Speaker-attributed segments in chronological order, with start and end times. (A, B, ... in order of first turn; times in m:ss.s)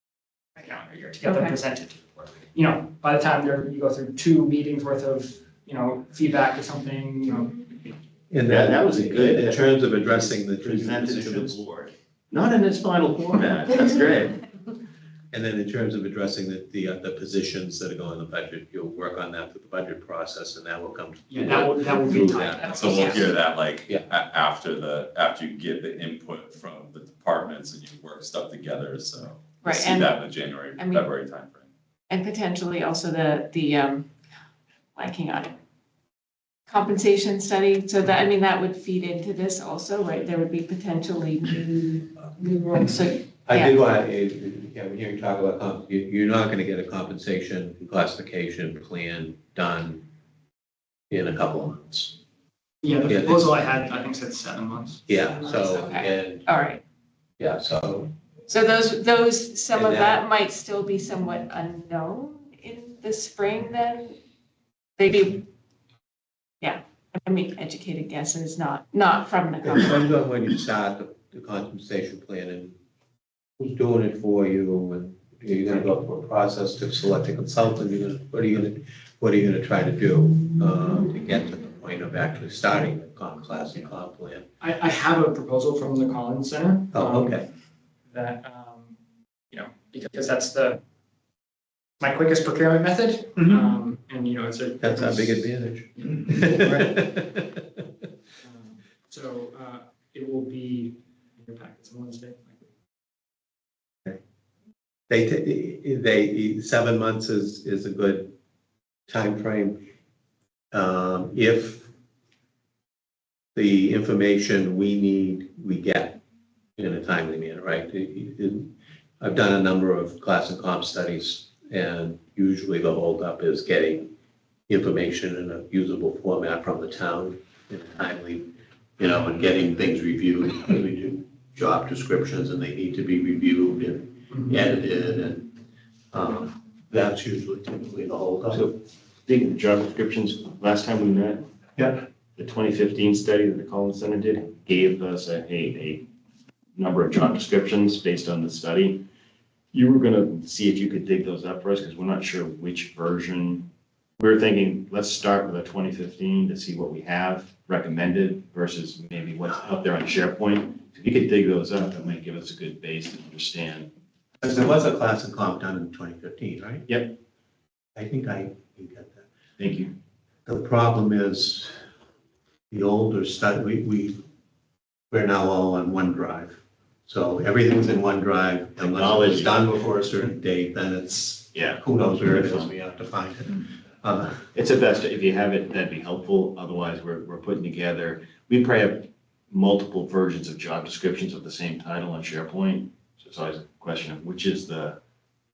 0:00.6-0:07.9 A
0:01.2-0:01.6 B
0:08.3-0:11.6 C
0:08.4-0:14.4 D
0:15.3-0:23.3 C
0:21.3-0:23.3 A
0:22.6-0:31.7 E
0:29.6-0:30.2 B
0:30.8-0:31.0 B
0:32.1-0:34.1 B
0:35.0-0:35.6 B
0:36.7-0:43.8 B
0:43.4-0:50.0 C
0:51.1-0:52.2 C
0:52.8-0:55.7 A
0:53.1-0:53.6 C
0:55.1-0:56.5 C
0:55.6-0:56.8 B
0:57.4-0:58.1 C
0:58.5-1:04.2 B
0:59.7-1:00.2 C
1:05.0-1:05.4 B
1:06.6-1:10.0 B
1:09.6-1:12.8 C
1:13.6-1:24.5 C
1:24.6-1:27.4 A
1:26.9-1:27.4 C
1:28.1-1:28.9 A
1:29.5-1:30.8 A
1:32.0-1:37.0 A
1:34.8-1:37.8 C
1:38.4-1:42.6 A
1:45.1-1:48.3 C
1:49.1-1:49.8 C
1:50.7-1:51.9 C
1:53.5-1:56.2 C
1:56.8-2:04.1 C
2:04.7-2:15.5 C
2:16.1-2:18.7 C
2:19.3-2:21.4 D
2:21.8-2:22.0 C
2:22.4-2:26.1 D
2:26.8-2:29.0 D
2:29.7-2:33.7 D
2:34.2-2:43.9 D
2:44.4-2:46.9 C
2:46.9-2:47.1 D
2:47.9-2:49.2 C
2:49.6-2:49.9 D
2:50.4-2:51.7 C
2:52.7-2:54.2 C
2:55.1-3:04.5 C
2:58.8-2:59.6 D
3:01.5-3:02.7 D
3:04.5-3:15.0 D